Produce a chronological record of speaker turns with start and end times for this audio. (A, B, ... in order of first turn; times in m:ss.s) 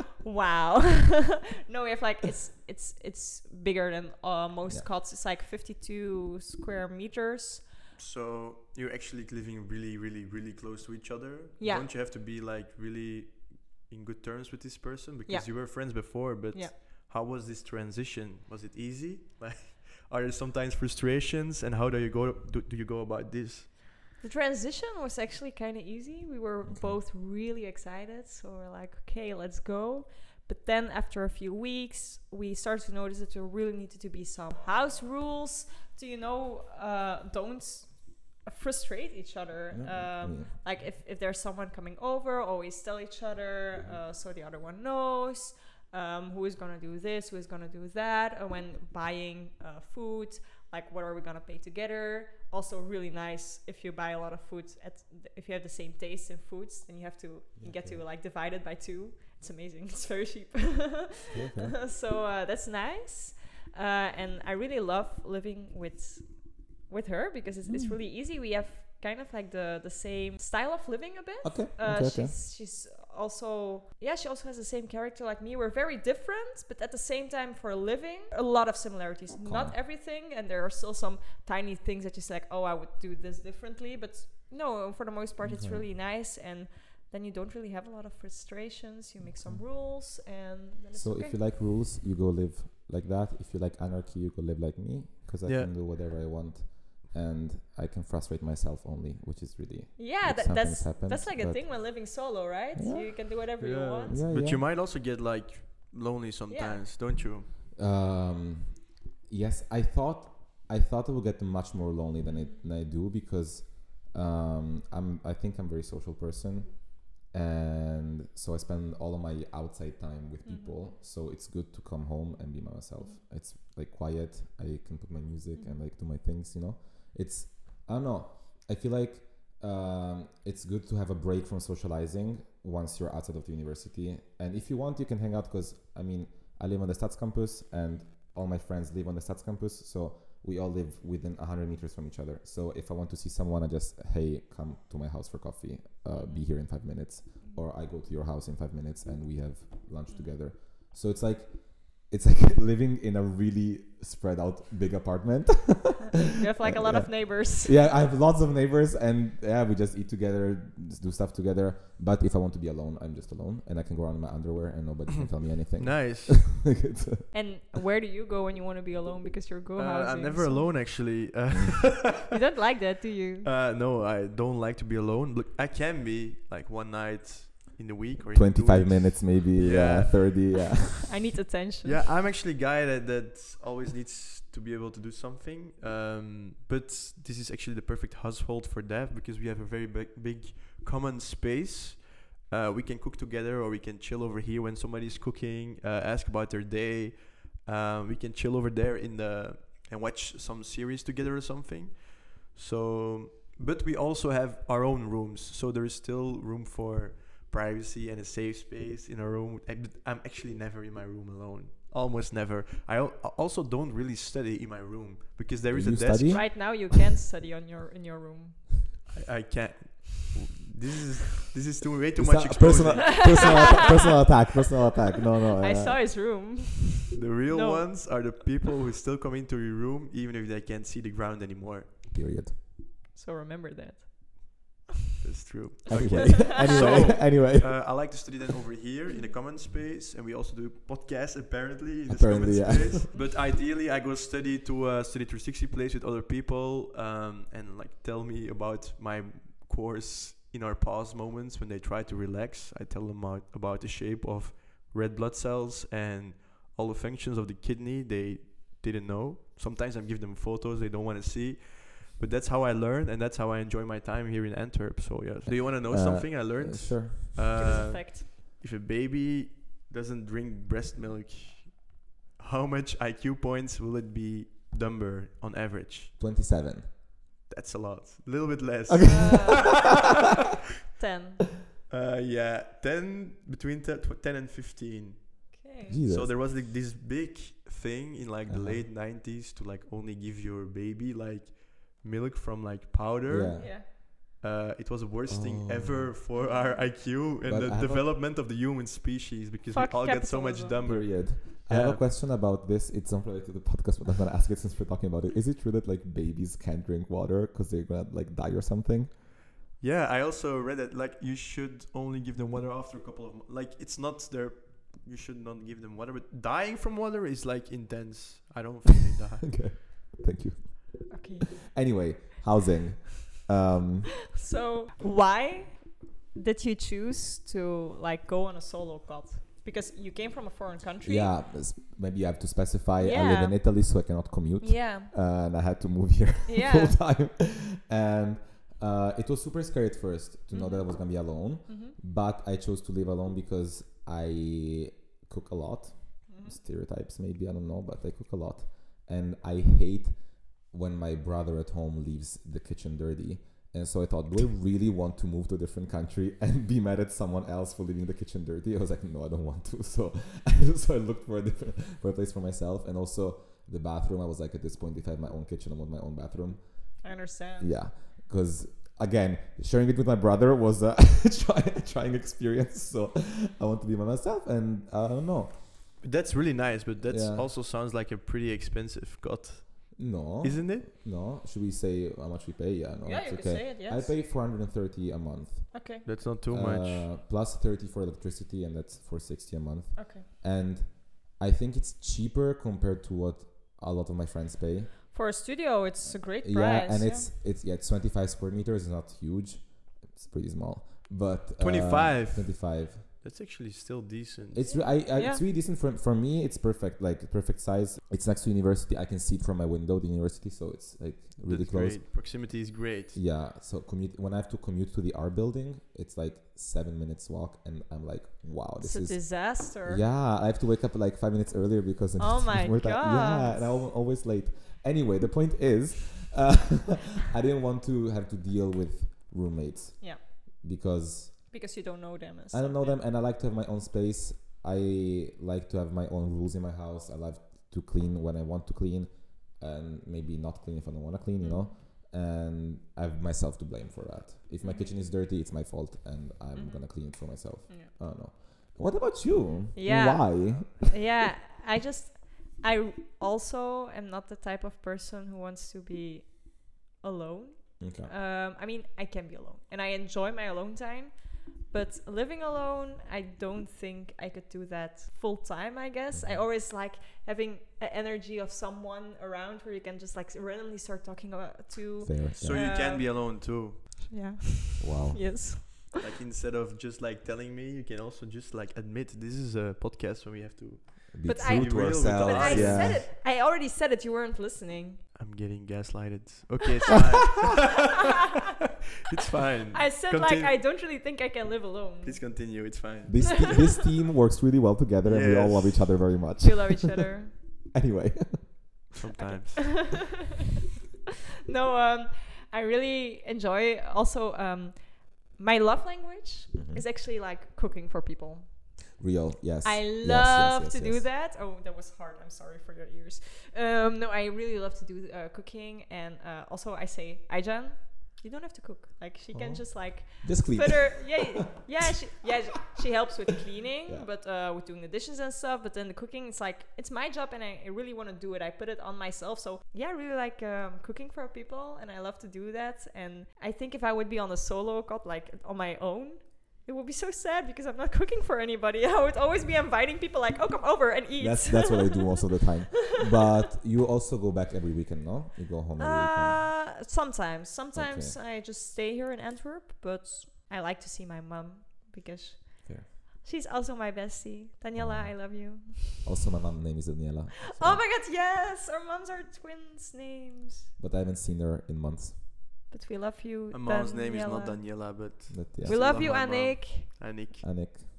0:00.2-0:07.7 A
0:08.0-0:23.7 B
0:11.6-0:11.9 A
0:15.3-0:16.7 A
0:24.2-1:31.4 A
0:26.6-0:27.0 C
0:39.7-0:40.8 C
0:43.7-0:44.0 C
0:57.6-0:58.0 C
1:01.3-1:01.7 C
1:07.7-1:08.0 C
1:11.4-1:12.4 C
1:19.3-1:19.8 C
1:25.4-1:25.8 C
1:29.2-1:30.0 C
1:30.9-1:43.3 C
1:35.4-1:35.7 B
1:40.0-1:44.2 A
1:43.6-1:47.5 B
1:44.1-1:44.7 C
1:46.5-1:46.8 A
1:47.7-2:47.3 C
1:52.3-1:52.6 A
2:00.4-2:00.8 A
2:05.5-2:05.8 A
2:26.1-2:27.6 A
2:36.3-2:37.9 A
2:45.8-2:46.6 B
2:47.3-2:50.7 A
2:49.8-2:52.3 B
2:51.5-2:51.9 C
2:52.3-2:53.5 A
2:53.4-3:00.7 B
2:58.3-3:01.1 C
3:01.0-3:02.0 A
3:01.8-3:36.5 B
3:35.7-3:36.8 C
3:36.3-3:38.8 A
3:39.1-3:43.8 B
3:42.2-3:46.0 C
3:43.0-3:44.3 A
3:45.6-3:48.1 A
3:47.1-3:51.9 B
3:52.1-3:52.5 C
3:53.1-3:54.8 A
3:55.2-4:36.1 B
3:55.9-3:58.2 C
3:56.0-3:57.1 A
4:02.1-4:03.0 C
4:25.4-4:27.5 C
4:27.5-4:28.2 A
4:36.2-4:36.9 C
4:37.5-4:39.9 B
4:38.9-4:39.7 C
4:39.0-4:39.9 A
4:41.0-4:41.5 A
4:41.9-5:02.0 B
4:45.5-4:46.0 A
4:45.9-4:46.3 C
4:48.5-4:48.9 C
4:53.3-4:53.8 C
4:53.6-4:53.8 A
4:55.3-4:56.1 C
4:56.3-4:56.9 A
4:57.2-4:58.1 C
4:59.7-5:00.8 A
5:00.8-5:09.1 C
5:09.8-5:19.8 B
5:19.5-5:24.3 C
5:21.1-5:21.6 A
5:24.3-5:31.3 A
5:31.0-6:16.0 C
5:33.0-5:33.6 A
5:34.6-5:35.1 A
5:36.5-5:37.0 A
5:40.5-5:40.9 A
5:41.6-5:41.9 A
5:46.3-5:46.6 A
6:07.0-6:07.8 A
6:16.0-6:20.9 B
6:17.0-6:17.5 C
6:20.0-6:35.1 C
6:23.0-6:24.1 A
6:25.7-6:26.0 A
6:26.0-6:27.1 B
6:30.0-6:30.2 A
6:35.1-6:37.3 A
6:36.2-6:43.1 C
6:41.6-6:44.7 B
6:44.5-6:52.0 C
6:44.6-6:45.4 A
6:51.4-6:53.2 B
6:53.1-7:11.6 C
6:58.8-7:00.0 A
7:02.2-7:03.8 A
7:11.5-7:13.0 A
7:12.5-7:31.0 C
7:21.4-7:21.7 A
7:24.6-7:24.9 A
7:26.5-7:27.9 A
7:29.7-7:56.0 A
7:37.8-7:38.1 C
7:46.1-7:46.4 C
7:52.0-7:52.7 C
7:52.4-7:54.1 B
7:54.8-7:55.7 C
7:56.0-8:03.0 B
8:01.1-8:03.0 C
8:01.2-8:05.0 A
8:05.1-8:08.0 B
8:09.1-8:10.5 B
8:09.7-8:12.6 A
8:12.0-8:13.5 B
8:13.0-8:16.9 C
8:15.0-8:16.1 B
8:16.4-8:17.3 A
8:17.7-8:18.9 C
8:19.0-8:19.9 B
8:19.2-8:20.1 A
8:21.5-8:28.8 A
8:26.5-8:26.8 C
8:29.0-8:31.1 C
8:29.6-9:02.2 A
8:39.3-8:41.3 C
9:01.2-9:06.6 C
9:05.8-9:16.0 A
9:07.7-9:08.2 C
9:14.7-9:17.8 C
9:17.5-9:20.7 A
9:20.8-9:22.2 C
9:22.7-9:25.0 A
9:23.5-9:27.4 B
9:25.3-9:26.2 C
9:25.6-9:26.9 A
9:27.4-9:27.8 C